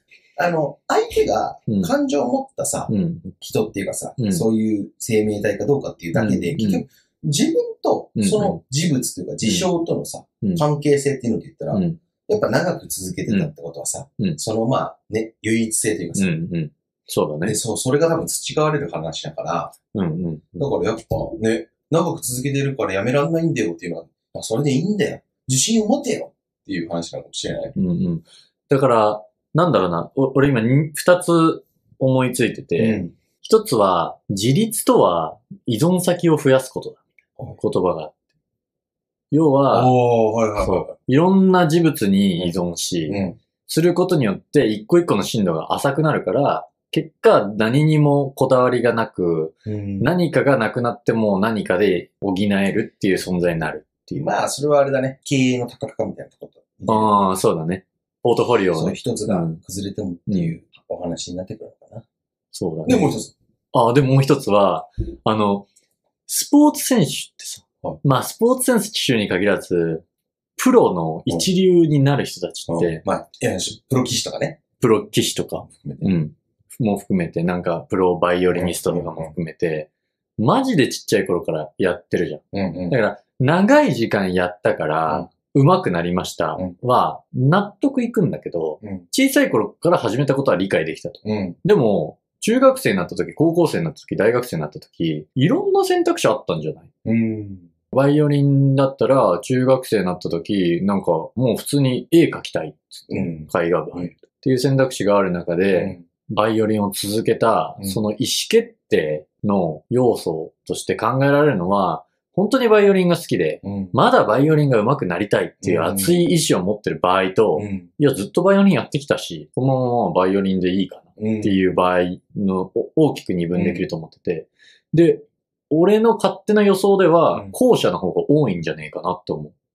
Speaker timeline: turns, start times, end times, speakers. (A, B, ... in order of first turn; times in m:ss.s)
0:00.4-0:16.4 A
0:02.9-0:03.3 B
0:04.2-0:04.4 B
0:06.1-0:06.8 B
0:08.2-0:08.6 B
0:11.7-0:12.0 B
0:16.2-0:17.6 B
0:17.4-0:19.7 A
0:19.9-0:20.7 B
0:20.6-0:27.7 A
0:27.8-0:37.0 B
0:32.8-0:33.1 A
0:37.5-0:38.1 B
0:39.3-0:39.9 B
0:39.7-0:40.9 A
0:40.6-0:54.3 B
0:43.1-0:43.4 A
0:49.6-0:50.1 A
0:54.2-0:57.2 A
0:56.9-0:59.6 B
0:58.7-1:02.0 A
1:00.3-1:00.5 B
1:02.5-1:03.1 B
1:02.8-1:03.3 A
1:03.7-1:05.7 B
1:06.3-1:10.0 B
1:10.6-1:13.0 B
1:12.7-1:14.6 A
1:14.8-1:36.9 B
1:15.7-1:16.1 A
1:18.5-1:19.3 A
1:22.5-1:22.9 A
1:31.2-1:31.6 A
1:37.0-1:37.7 A
1:37.9-2:09.5 B
1:43.1-1:44.1 A
1:45.7-1:46.0 A
1:53.6-1:53.9 A
1:55.6-1:56.2 A
1:57.6-1:57.9 A
2:01.2-2:01.5 A
2:03.5-2:03.8 A